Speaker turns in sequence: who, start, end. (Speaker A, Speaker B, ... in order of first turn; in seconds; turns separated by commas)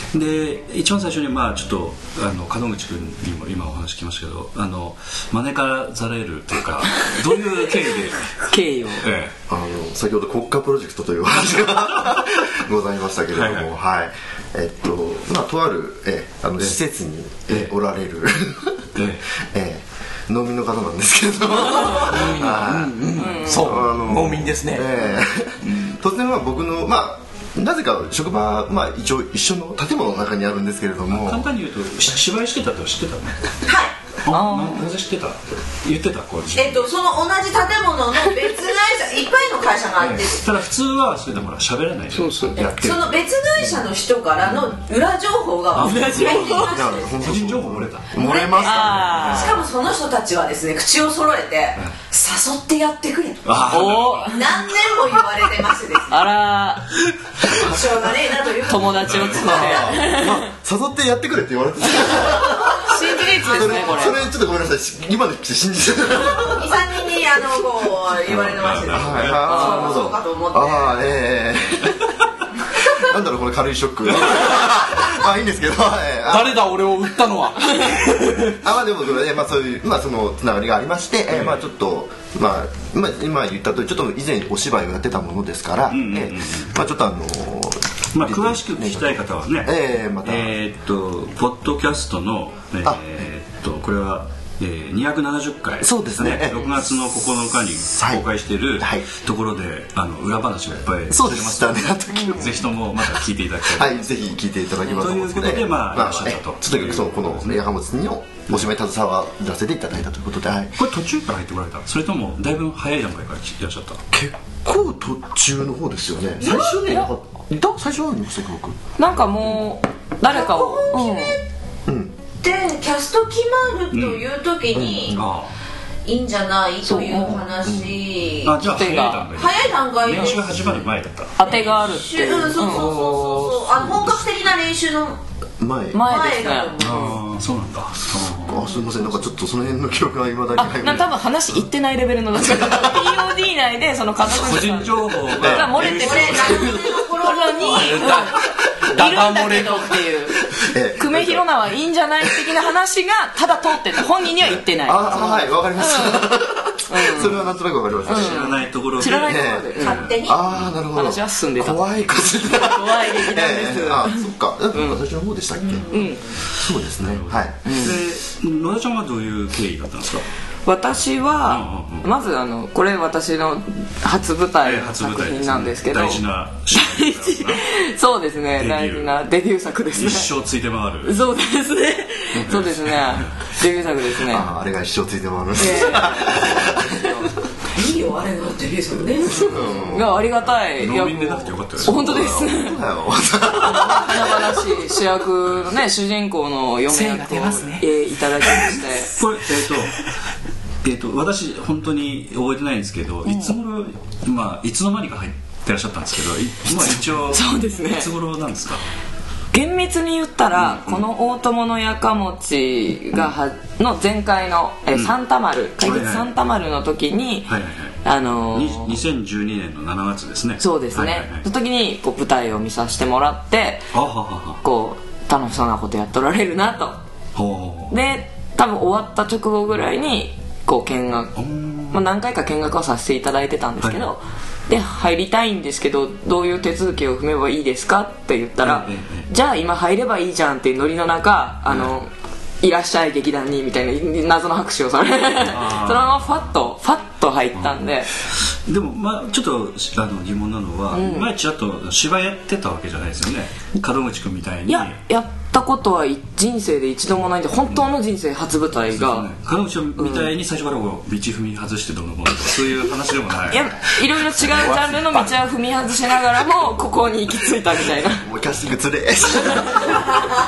Speaker A: 0.1-8.4, Speaker B: 8.4-9.1, Speaker A: 9.0-9.3, Speaker C: 9.5-31.5, Speaker A: 13.3-13.7, Speaker A: 18.9-19.2, Speaker D: 22.0-25.0, Speaker B: 23.1-23.6, Speaker D: 25.6-25.9, Speaker A: 31.1-33.5, Speaker E: 33.6-33.9, Speaker A: 34.2-36.9, Speaker B: 34.3-34.9, Speaker E: 36.5-40.4, Speaker A: 40.0-43.0, Speaker B: 42.1-42.6, Speaker C: 42.6-43.1, Speaker E: 42.6-47.3, Speaker A: 45.8-46.4, Speaker B: 45.8-46.7, Speaker C: 46.6-49.6, Speaker A: 47.1-48.2, Speaker E: 48.1-56.3, Speaker B: 48.6-49.6, Speaker A: 53.4-54.4, Speaker B: 53.7-54.4, Speaker B: 56.1-56.9, Speaker E: 57.4-60.0, Speaker B: 58.6-60.5, Speaker A: 59.0-59.4, Speaker C: 59.4-62.9, Speaker E: 62.1-64.2, Speaker B: 62.8-64.2, Speaker C: 63.4-66.7, Speaker E: 66.3-71.1, Speaker A: 68.3-69.5, Speaker C: 68.9-72.0, Speaker B: 69.4-70.2, Speaker C: 72.8-76.7, Speaker D: 74.2-74.7, Speaker D: 76.3-78.6, Speaker C: 78.5-90.5, Speaker A: 81.3-81.6, Speaker A: 85.9-86.7, Speaker A: 88.1-104.3, Speaker C: 95.8-96.8, Speaker C: 97.9-98.2, Speaker C: 98.8-99.0, Speaker C: 101.1-110.8, Speaker A: 104.8-107.6, Speaker A: 110.8-114.0, Speaker C: 114.1-118.8, Speaker B: 116.4-117.1, Speaker B: 119.0-121.4, Speaker E: 120.3-121.4, Speaker C: 121.8-122.1, Speaker E: 122.4-125.2, Speaker A: 123.9-124.2, Speaker C: 124.7-125.2, Speaker A: 125.1-125.5, Speaker E: 126.0-128.6, Speaker B: 126.8-127.4, Speaker C: 127.6-128.0, Speaker A: 128.4-131.4, Speaker B: 128.6-129.3, Speaker E: 129.2-130.8, Speaker B: 131.4-133.5, Speaker E: 131.4-135.2, Speaker C: 135.6-136.1, Speaker B: 135.9-137.1, Speaker E: 136.0-137.2, Speaker A: 136.8-138.6, Speaker C: 138.4-141.1, Speaker B: 140.6-150.4, Speaker C: 142.4-143.2, Speaker A: 144.2-146.7, Speaker C: 145.3-147.0, Speaker E: 145.8-148.2, Speaker D: 147.7-150.1, Speaker C: 150.6-151.4, Speaker B: 150.9-156.3, Speaker C: 154.4-158.5, Speaker B: 156.9-157.4, Speaker A: 158.0-160.8, Speaker B: 158.1-160.1, Speaker C: 159.1-165.9, Speaker E: 159.7-160.4, Speaker B: 160.9-161.8, Speaker B: 162.5-165.0, Speaker E: 165.5-166.2, Speaker B: 165.9-166.2, Speaker C: 166.6-167.6, Speaker A: 167.0-170.2, Speaker B: 167.6-168.0, Speaker B: 170.7-180.3, Speaker A: 171.4-172.1, Speaker A: 174.6-177.6, Speaker A: 178.6-179.2, Speaker A: 179.9-181.2, Speaker B: 181.0-184.5, Speaker A: 182.3-183.3, Speaker C: 184.2-187.2, Speaker B: 185.6-187.3, Speaker E: 187.7-189.8, Speaker C: 189.3-190.2, Speaker B: 189.3-192.8, Speaker A: 190.7-192.4, Speaker C: 191.9-194.7, Speaker B: 193.6-199.1, Speaker D: 196.9-197.9, Speaker D: 198.4-198.8, Speaker A: 199.1-200.0, Speaker A: 200.8-208.8, Speaker B: 203.2-203.6, Speaker B: 207.3-208.1, Speaker B: 209.5-217.5, Speaker A: 210.5-211.1, Speaker A: 215.8-216.3, Speaker A: 217.5-221.4, Speaker B: 218.0-219.0, Speaker B: 220.6-223.9, Speaker A: 223.9-224.6, Speaker B: 224.6-227.0, Speaker A: 227.3-227.9, Speaker B: 227.9-231.3, Speaker A: 231.3-232.0, Speaker B: 231.9-248.1, Speaker A: 233.8-234.1, Speaker A: 238.6-239.3, Speaker A: 241.7-241.9, Speaker A: 245.5-246.4, Speaker A: 247.6-255.0, Speaker B: 250.9-251.3, Speaker B: 254.7-259.3, Speaker A: 258.9-263.6, Speaker B: 260.0-260.3, Speaker B: 263.5-268.3, Speaker D: 264.5-265.3, Speaker C: 268.2-270.2